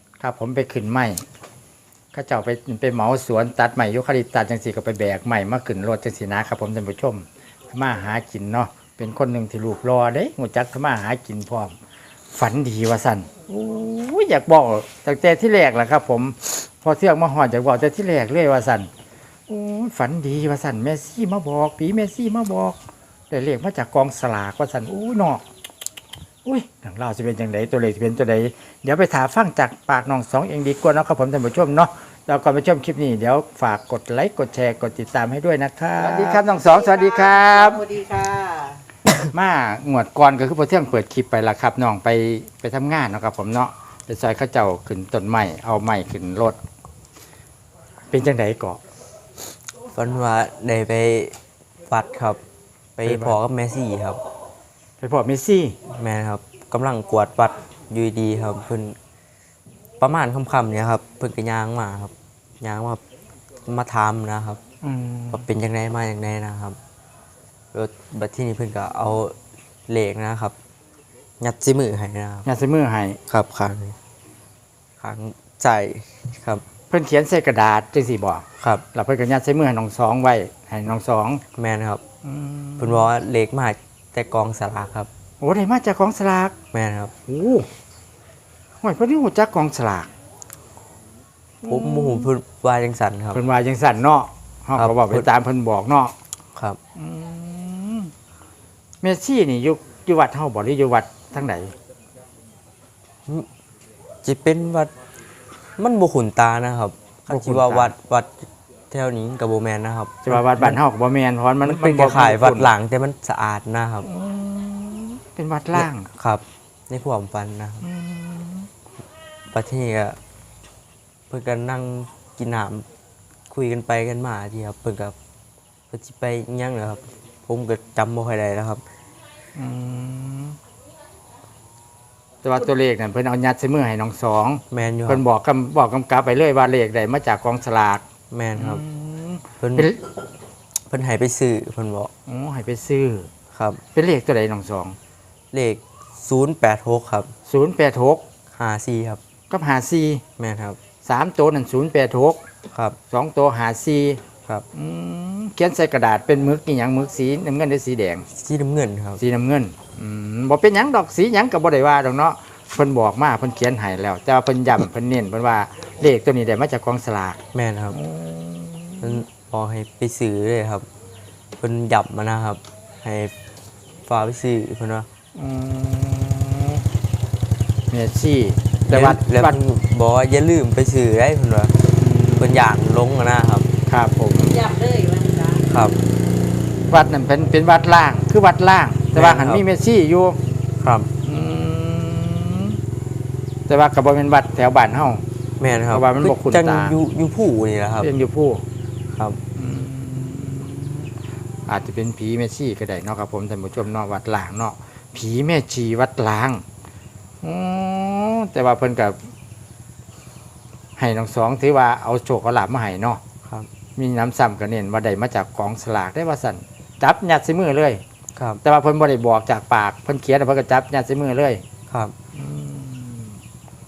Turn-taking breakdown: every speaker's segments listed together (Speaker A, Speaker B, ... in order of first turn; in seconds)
Speaker A: 0.2-1.2, 2.1-11.7, 12.3-18.9, 19.5-22.8, 23.3-25.4, 26.4-37.9, 39.3-46.6, 48.1-48.8, 53.0-53.4, 55.0-55.8, 64.8-65.4, 72.4-73.2, 76.9-81.4, 82.2-83.1, 85.4-86.5, 87.3-87.7, 88.8-90.1, 91.6-92.3, 93.3-96.1, 96.9-98.1, 99.0-101.7, 107.3-107.9, 110.2-112.7, 114.0-116.1, 117.8-118.7, 129.5-130.6, 132.4-138.0, 138.5-140.0, 142.3-143.3, 143.9-144.9, 147.5-148.2, 149.5-150.2, 151.0-152.4, 153.1-154.2, 154.7-158.2, 159.2-167.4, 167.9-169.2, 175.3-176.8, 177.9-179.6, 182.0-182.6, 183.9-184.7, 186.9-190.4, 191.2-192.8, 193.7-195.2, 195.9-197.0, 198.0-198.6, 199.6-201.1, 201.7-206.6, 207.4-209.2, 211.0-213.2, 213.9-218.0, 218.6-221.6, 222.3-223.3
Speaker B: 36.2-38.8, 184.6-185.6
Speaker C: 49.9-51.3, 51.9-52.4, 53.0-54.2, 55.9-59.0, 60.0-63.0, 63.6-64.6, 65.3-66.8, 67.7-69.3, 69.9-70.5, 71.4-72.5, 73.3-73.9, 75.0-76.6, 81.5-82.0, 82.8-85.1, 86.7-87.1, 91.6-93.4, 94.8-95.2, 104.2-104.9, 105.8-110.8, 111.6-114.1, 115.7-117.8, 119.5-120.2, 121.3-122.8, 123.5-125.1, 125.9-128.8, 134.7-135.2, 138.3-138.8, 139.6-139.9, 140.9-142.1, 143.5-143.8, 145.5-147.3, 148.5-149.2, 150.4-150.8, 152.7-153.0, 158.3-159.2, 167.5-168.0, 169.0-170.8, 171.6-173.3, 174.1-175.1, 178.9-181.8, 182.4-183.7, 185.7-186.0, 189.1-189.6, 190.8-191.1, 195.6-198.1, 199.1-199.4